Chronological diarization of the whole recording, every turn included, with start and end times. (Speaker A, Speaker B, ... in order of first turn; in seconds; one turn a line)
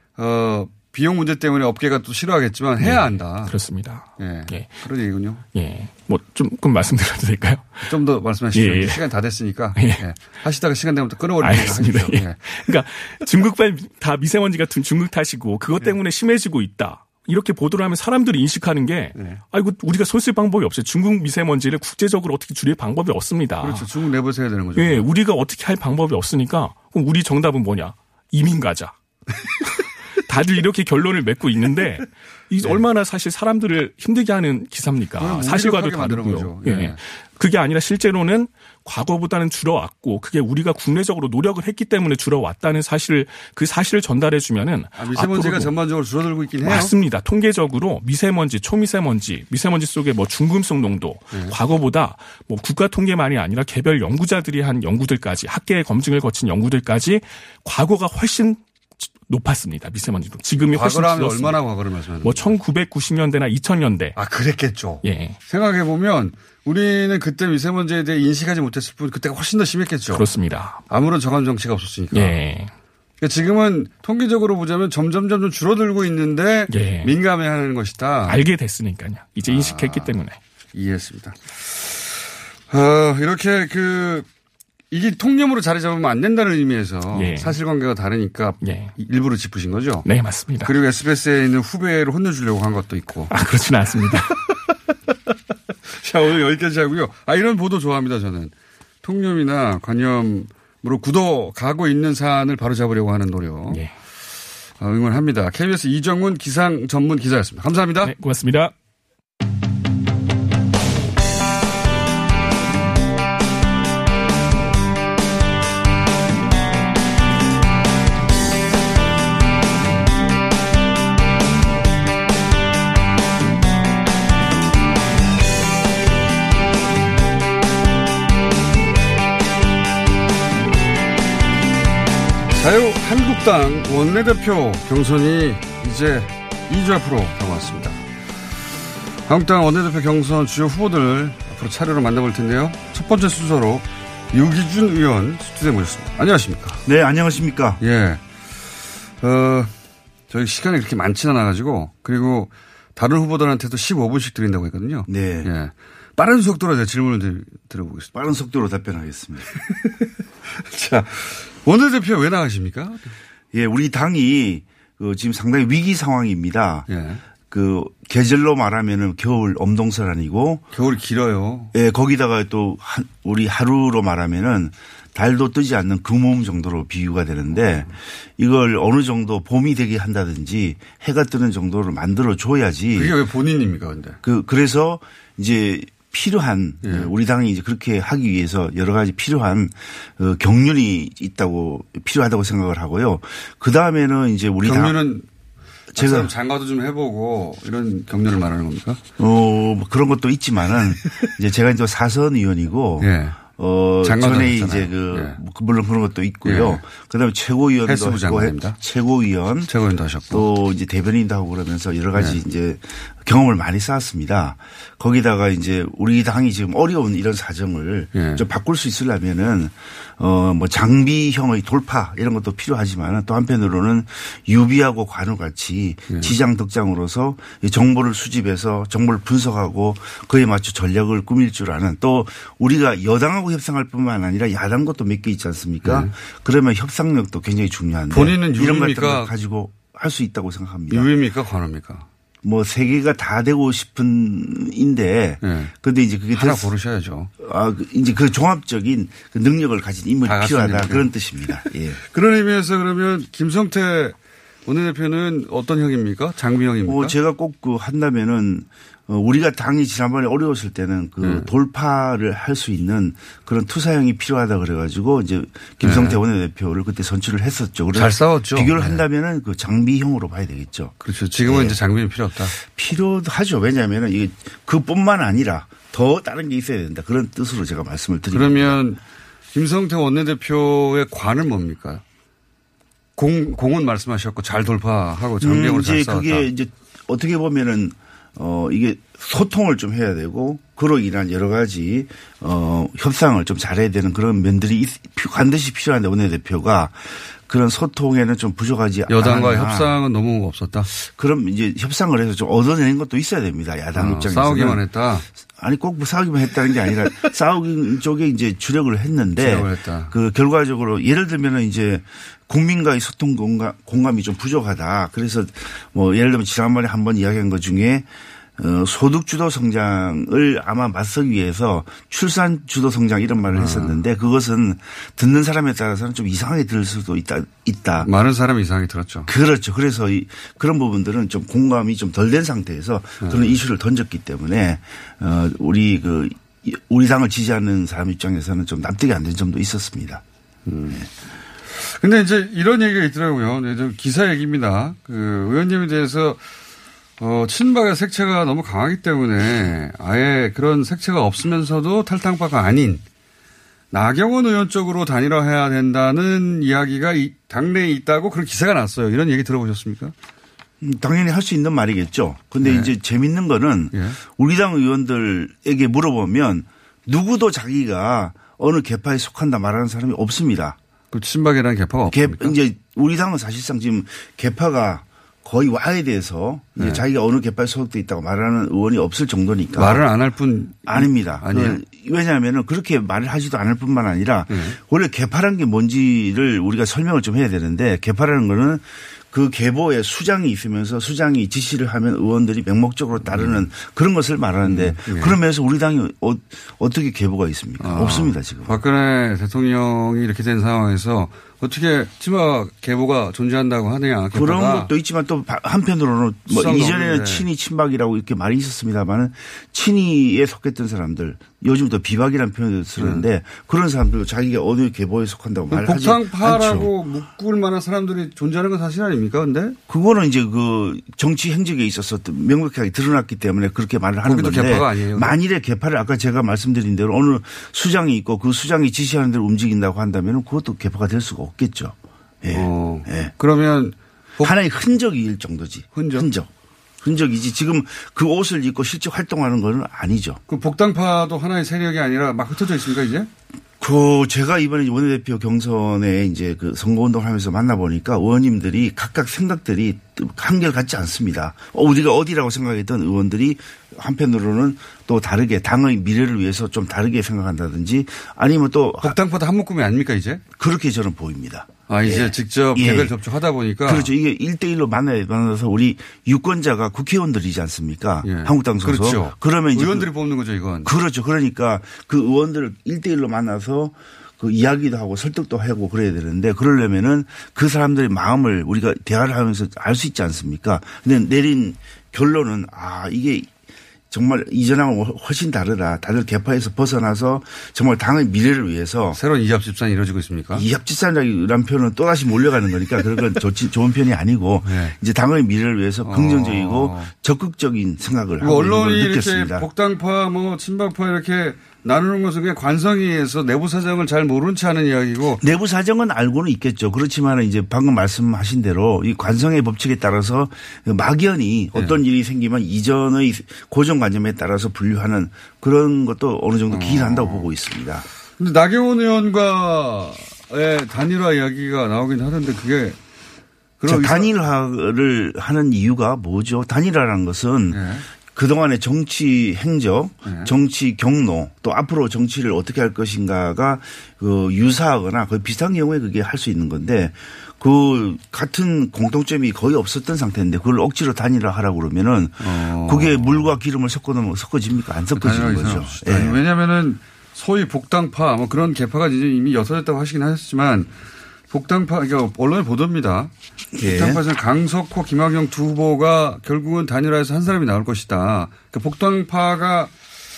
Speaker A: 0.2-3.5
Speaker B: 2.8-4.9
Speaker A: 4.2-5.5
Speaker B: 5.5-7.9
Speaker A: 7.9-12.4
Speaker B: 8.5-9.0
Speaker B: 9.8-10.0
Speaker B: 11.4-23.9
Speaker A: 19.2-19.4
Speaker A: 23.6-25.1
Speaker B: 24.8-28.9
Speaker B: 30.3-45.7
Speaker A: 35.2-37.0
Speaker A: 45.0-46.9
Speaker B: 46.6-61.6
Speaker A: 51.3-51.6
Speaker A: 60.7-62.6
Speaker B: 62.2-64.2
Speaker A: 64.2-70.3
Speaker B: 65.0-65.4
Speaker B: 70.1-70.8
Speaker A: 70.9-72.4
Speaker B: 72.1-72.7
Speaker A: 73.2-78.4
Speaker B: 76.7-77.1
Speaker B: 78.2-80.4
Speaker A: 79.4-80.2
Speaker A: 80.7-84.3
Speaker A: 84.9-90.1
Speaker B: 87.1-87.6
Speaker B: 88.6-88.9
Speaker B: 90.0-90.7
Speaker A: 90.6-93.3
Speaker B: 93.3-94.3
Speaker A: 96.0-103.8
Speaker A: 104.8-108.1
Speaker B: 108.0-108.7
Speaker A: 132.5-138.1
Speaker A: 139.3-146.8
Speaker C: 146.9-147.8
Speaker A: 147.8-148.2
Speaker A: 149.2-149.7
Speaker A: 150.3-158.2
Speaker C: 155.1-155.5
Speaker C: 158.2-159.5
Speaker A: 160.6-163.0
Speaker C: 163.5-166.9
Speaker A: 166.9-167.2
Speaker C: 167.5-170.7
Speaker A: 170.7-171.7
Speaker C: 171.7-183.2
Speaker A: 177.6-177.8
Speaker A: 182.9-184.2
Speaker C: 184.2-195.0
Speaker A: 186.8-187.1
Speaker A: 194.6-195.3
Speaker C: 195.9-196.3
Speaker A: 196.0-199.0
Speaker C: 199.2-209.7
Speaker A: 203.0-203.4
Speaker A: 204.0-205.4
Speaker A: 206.4-206.8
Speaker A: 207.8-208.8
Speaker A: 209.7-210.4
Speaker C: 210.3-241.1
Speaker A: 212.2-212.4
Speaker A: 218.1-218.4
Speaker A: 226.1-226.3
Speaker A: 235.8-236.1
Speaker A: 238.1-239.3
Speaker A: 240.9-242.1
Speaker C: 242.4-246.7
Speaker A: 245.4-245.7
Speaker A: 246.3-247.3
Speaker C: 247.4-252.0
Speaker A: 250.2-257.2
Speaker C: 256.9-271.8
Speaker A: 261.2-261.5
Speaker A: 265.8-266.2
Speaker A: 267.9-269.0
Speaker A: 271.0-272.5
Speaker C: 272.6-278.8
Speaker A: 278.3-279.0
Speaker A: 279.5-282.0
Speaker A: 283.2-286.5
Speaker C: 285.4-300.0
Speaker A: 299.1-300.9
Speaker C: 300.9-304.9
Speaker A: 303.9-305.2
Speaker C: 305.6-328.1
Speaker A: 309.4-310.1
Speaker A: 323.5-324.0
Speaker A: 328.0-329.3
Speaker C: 329.3-340.2
Speaker A: 333.2-333.6
Speaker A: 340.7-341.1
Speaker A: 341.7-346.4
Speaker A: 347.2-353.0
Speaker A: 353.9-360.1
Speaker C: 360.8-370.8
Speaker A: 362.6-362.9
Speaker A: 363.9-364.2
Speaker A: 371.1-372.6
Speaker C: 372.1-380.1
Speaker A: 376.8-377.0
Speaker A: 379.8-381.8
Speaker C: 380.9-398.8
Speaker A: 384.5-384.8
Speaker A: 393.2-393.7
Speaker A: 394.6-395.4
Speaker A: 397.8-404.9
Speaker C: 404.3-416.9
Speaker A: 406.5-407.5
Speaker A: 413.0-413.3
Speaker A: 415.7-419.8
Speaker C: 419.9-433.3
Speaker A: 424.2-425.4
Speaker A: 432.5-434.6
Speaker C: 434.4-436.5
Speaker A: 435.9-436.3
Speaker C: 437.0-440.4
Speaker A: 440.5-443.3
Speaker C: 443.8-459.2
Speaker A: 459.0-460.4
Speaker C: 460.6-463.1
Speaker A: 461.9-464.1
Speaker C: 463.9-470.1
Speaker A: 468.2-470.9
Speaker C: 470.8-483.5
Speaker C: 484.1-489.2
Speaker A: 489.1-490.7
Speaker C: 490.6-499.7
Speaker A: 494.6-495.0
Speaker A: 496.1-497.1
Speaker A: 498.4-505.4
Speaker C: 505.4-518.1
Speaker A: 516.7-517.5
Speaker A: 518.4-523.0
Speaker A: 523.8-524.3
Speaker C: 523.8-546.4
Speaker A: 527.7-528.1
Speaker A: 530.2-530.5
Speaker A: 542.4-543.5
Speaker A: 545.2-550.9
Speaker A: 551.5-559.9
Speaker C: 553.8-554.2